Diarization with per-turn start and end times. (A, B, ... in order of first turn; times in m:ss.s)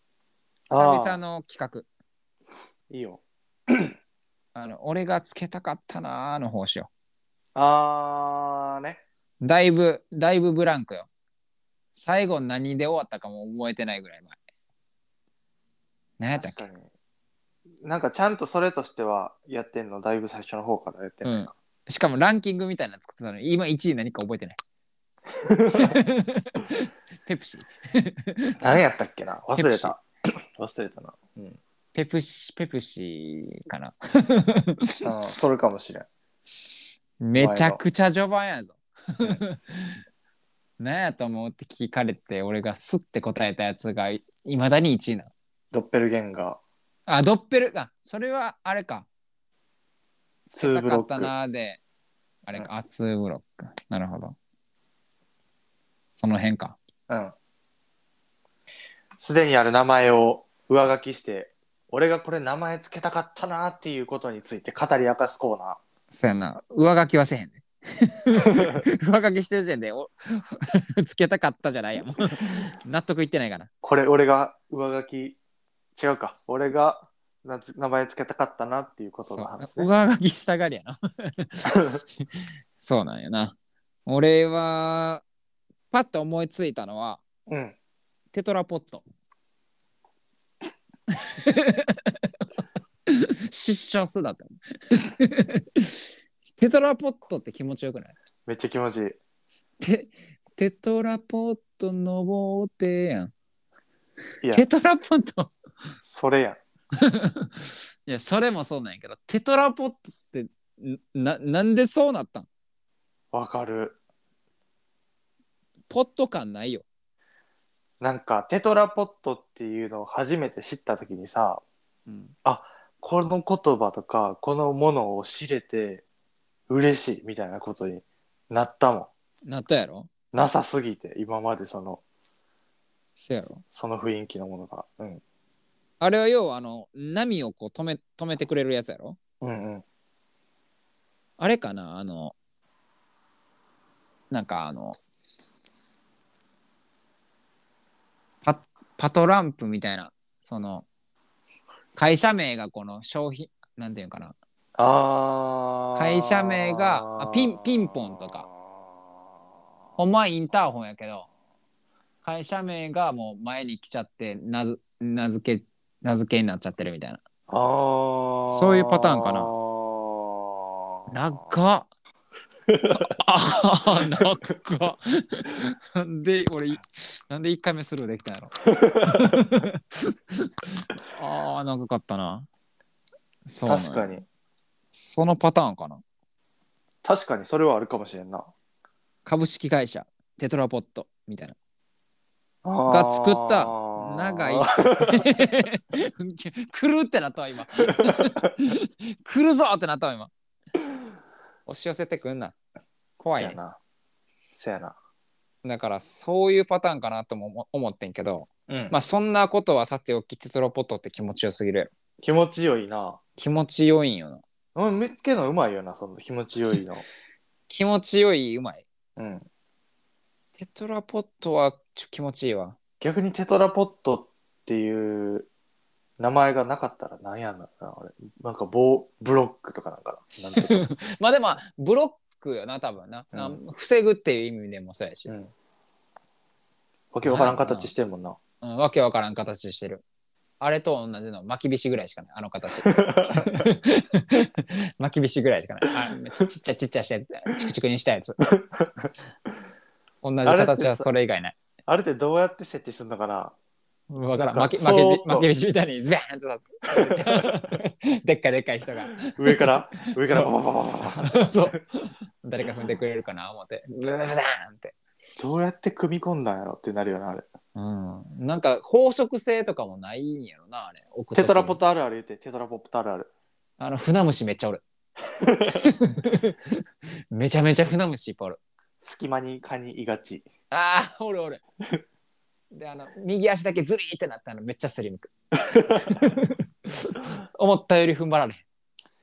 0:00.7-0:01.2 A
0:00.7-0:01.9 B
0:02.9-0:03.9 A
0:04.6-0:06.9 B
0:07.6-0:09.0 A
0:09.4-0:11.1 B
0:12.0-0:14.4 B
0:16.2-0:16.6 B
0:16.3-0:16.9 A
0:17.8-0:21.4 A
0:21.2-0:24.6 B
0:25.4-0:26.0 A
0:25.7-0:28.6 B
0:28.6-0:30.0 A
0:29.6-0:29.9 B
0:30.6-0:31.6 A
0:31.9-0:35.1 B
0:35.0-0:36.1 A
0:37.2-0:40.0 B
0:37.4-0:37.8 A
0:40.8-0:45.3 B
0:45.7-0:46.6 A
0:47.1-0:49.1 B
0:50.5-0:51.3 A
0:50.6-0:51.8 B
0:52.4-0:54.4 B
0:56.2-0:56.8 B
0:57.1-0:57.3 A
0:59.2-1:05.8 A
1:06.1-1:13.7 B
1:13.8-1:15.4 A
1:16.0-1:19.9 A
1:19.3-1:22.3 B
1:21.7-1:22.0 A
1:22.8-1:23.6 B
1:24.1-1:25.2 B
1:25.9-1:27.2 B
1:27.5-1:27.8 A
1:28.3-1:29.0 B
1:31.2-1:32.3 B
1:33.1-1:36.0 B
1:36.6-1:38.2 B
1:38.5-1:39.2 A
1:39.8-1:43.3 B
1:44.5-1:45.5 B
1:46.1-1:46.6 A
1:47.0-1:52.5 B
1:53.3-1:54.0 A
1:55.9-1:56.8 B
1:58.0-2:01.6 A
2:02.1-2:02.3 B
2:02.4-2:06.0 A
2:06.7-2:09.1 A
2:09.5-2:10.1 B
2:10.3-2:12.0 A
2:13.2-2:13.6 B
2:13.4-2:15.2 A
2:16.0-2:19.2 B
2:19.4-2:19.8 A
2:21.4-2:22.4 B
2:24.3-2:25.0 B
2:28.4-2:30.9 B
2:32.0-2:34.4 B
2:34.8-2:38.3 A
2:36.0-2:38.5 B
2:40.0-2:41.3 B
2:42.2-2:47.2 B
2:47.5-2:51.1 A
2:48.5-2:49.5 B
2:51.1-2:51.9 B
2:52.7-2:53.0 A
2:52.9-3:02.5 B
2:58.7-2:59.3 A
3:03.5-3:04.2 B
3:03.6-3:04.2 A
3:04.9-3:06.0 B
3:07.0-3:08.5 A
3:09.2-3:11.6 B
3:12.6-3:15.2 A
3:12.9-3:20.3 B
3:21.7-3:22.6 B
3:23.2-3:23.6 B
3:23.3-3:23.8 A
3:24.6-3:25.0 A
3:25.6-3:31.9 B
3:28.7-3:29.0 A
3:32.2-3:33.2 A
3:33.4-3:34.4 B
3:34.8-3:37.0 A
3:37.7-3:38.9 B
3:39.2-3:39.5 A
3:40.6-3:42.8 B
3:43.0-3:45.5 A
3:46.2-3:50.8 A
3:50.6-3:55.3 B
3:53.3-3:53.6 A
3:55.3-3:55.5 A
3:57.1-3:58.4 A
3:57.2-3:57.9 B
3:58.6-4:00.0 B
4:00.6-4:08.4 B
4:02.8-4:03.7 A
4:08.5-4:09.1 A
4:10.2-4:11.6 B
4:10.4-4:11.1 A
4:11.9-4:13.6 A
4:14.1-4:20.5 B
4:14.5-4:15.5 A
4:17.0-4:17.6 A
4:19.3-4:21.8 A
4:21.3-4:24.9 B
4:25.4-4:27.5 A
4:27.8-4:31.8 B
4:31.4-4:33.3 A
4:33.8-4:34.8 B
4:35.4-4:35.9 A
4:35.7-4:38.6 B
4:39.0-4:40.5 A
4:40.7-4:41.6 B
4:42.7-4:45.3 B
4:45.8-4:48.6 B